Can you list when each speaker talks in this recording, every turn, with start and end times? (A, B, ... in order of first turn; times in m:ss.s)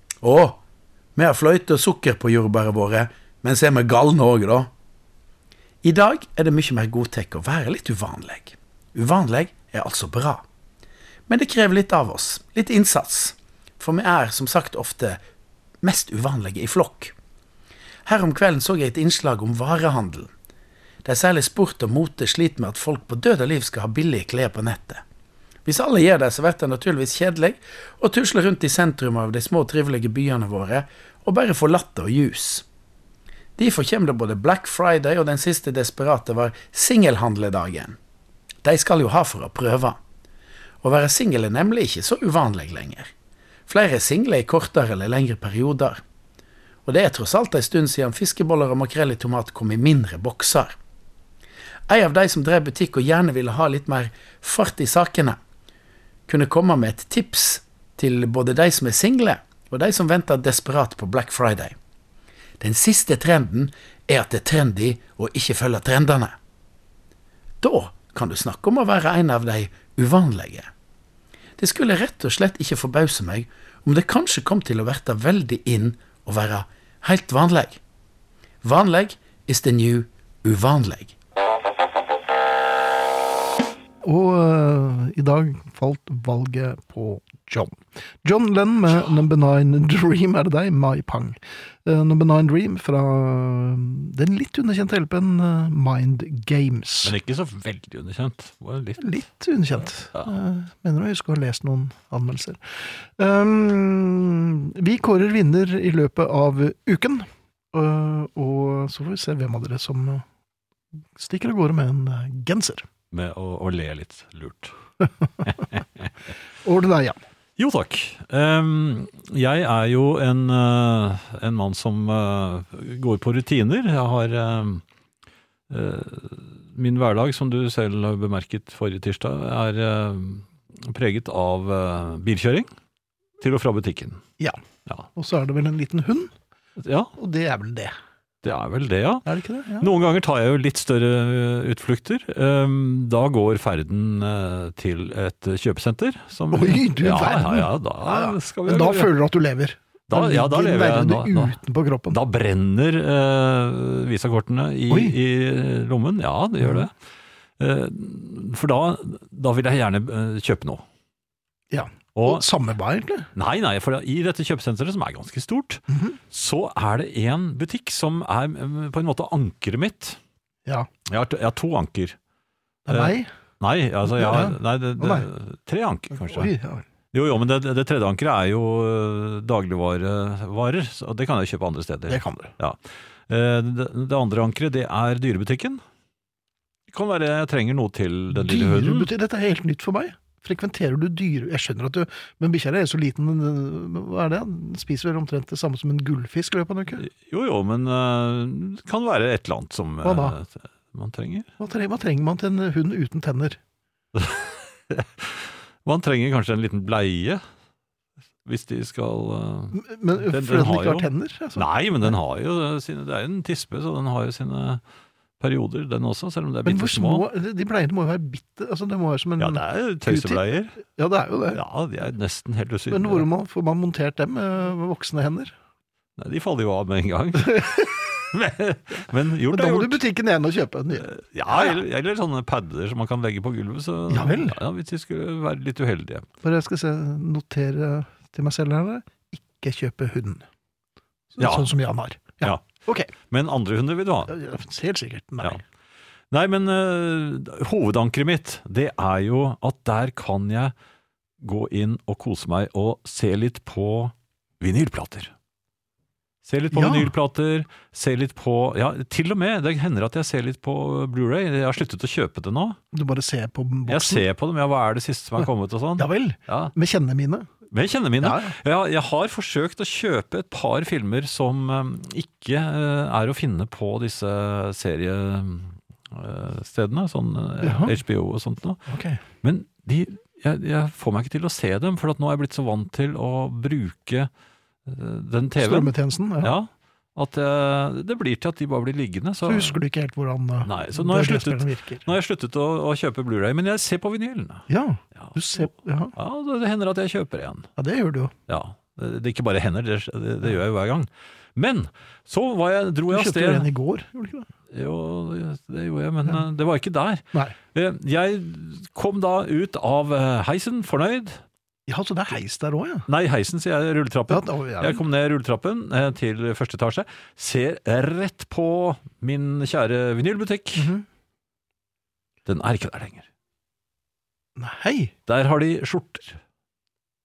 0:00.2-0:00.6 A
0:01.2-0:04.7 A
0:05.8-0:10.4 A
0:11.3-0:15.2 A
0:15.8-0:17.1 A
0:18.0-0:20.3 A
0:21.0-0:25.0 A
0:25.6-0:32.6 A
0:33.6-0:38.0 A
0:38.6-0:40.0 A
0:40.8-0:43.1 A
0:43.7-0:46.0 A
0:46.8-0:50.8 A
0:51.9-0:55.4 A
0:56.3-1:01.8 A
1:02.6-1:06.4 A
1:07.6-1:10.7 A
1:11.6-1:17.8 A
1:18.6-1:21.1 A
1:24.0-1:37.2 B
1:37.0-1:39.2 C
1:39.0-1:50.2 B
1:51.2-1:52.9 B
1:53.1-1:54.7 C
1:55.4-1:56.0 C
1:56.6-1:57.2 B
1:57.6-2:04.8 C
2:05.7-2:12.7 C
2:13.4-2:14.2 C
2:15.1-2:16.3 B
2:16.8-2:17.1 C
2:17.2-2:17.9 B
2:18.4-2:19.3 C
2:19.2-2:19.9 B
2:19.8-2:29.1 C
2:26.5-2:32.2 B
2:30.1-2:31.5 C
2:32.1-2:36.9 C
2:34.9-2:35.1 B
2:36.6-2:36.8 B
2:37.6-2:40.8 C
2:41.7-2:43.3 B
2:42.1-2:42.4 C
2:43.3-2:50.2 C
2:45.9-2:46.2 B
2:51.1-2:52.2 C
2:52.9-2:53.3 B
2:52.9-2:56.5 C
2:54.1-2:55.3 B
2:56.2-2:56.8 B
2:57.1-3:02.8 C
3:02.1-3:02.5 B
3:03.3-3:05.8 C
3:06.9-3:09.1 C
3:08.3-3:17.0 B
3:17.0-3:21.5 C
3:20.0-3:20.4 B
3:21.6-3:23.6 B
3:24.1-3:27.4 C
3:28.4-3:34.8 C
3:29.7-3:32.1 B
3:35.4-3:37.3 C
3:36.6-3:41.6 B
3:39.4-3:40.8 C
3:41.5-3:43.2 C
3:42.9-3:45.5 B
3:46.2-3:50.0 C
3:47.4-3:47.9 B
3:49.5-3:51.8 B
3:51.0-3:56.2 C
3:54.1-3:54.6 B
3:56.4-4:00.4 B
4:01.3-4:03.1 B
4:01.4-4:01.7 C
4:03.3-4:04.3 C
4:04.3-4:05.6 B
4:06.3-4:10.7 C
4:11.4-4:15.3 C
4:16.4-4:22.8 C
4:16.7-4:17.1 B
4:22.9-4:24.2 B
4:23.9-4:26.7 C
4:25.4-4:27.5 B
4:27.7-4:38.8 C
4:28.2-4:28.6 B
4:37.6-4:38.0 B
4:38.9-4:39.2 B
4:39.4-4:44.3 C
4:44.8-4:49.8 C
4:45.6-4:46.5 B
4:49.4-4:52.1 B
4:50.6-4:57.7 C
4:54.7-4:56.1 B
4:57.8-4:58.3 B
4:58.5-5:03.7 C
5:03.1-5:04.5 B
5:04.7-5:07.2 C
5:07.7-5:11.4 C
5:11.9-5:13.1 B
5:13.1-5:20.9 C
5:14.3-5:15.0 B
5:20.7-5:21.0 B
5:22.4-5:23.3 C
5:24.6-5:25.1 B
5:25.3-5:26.4 C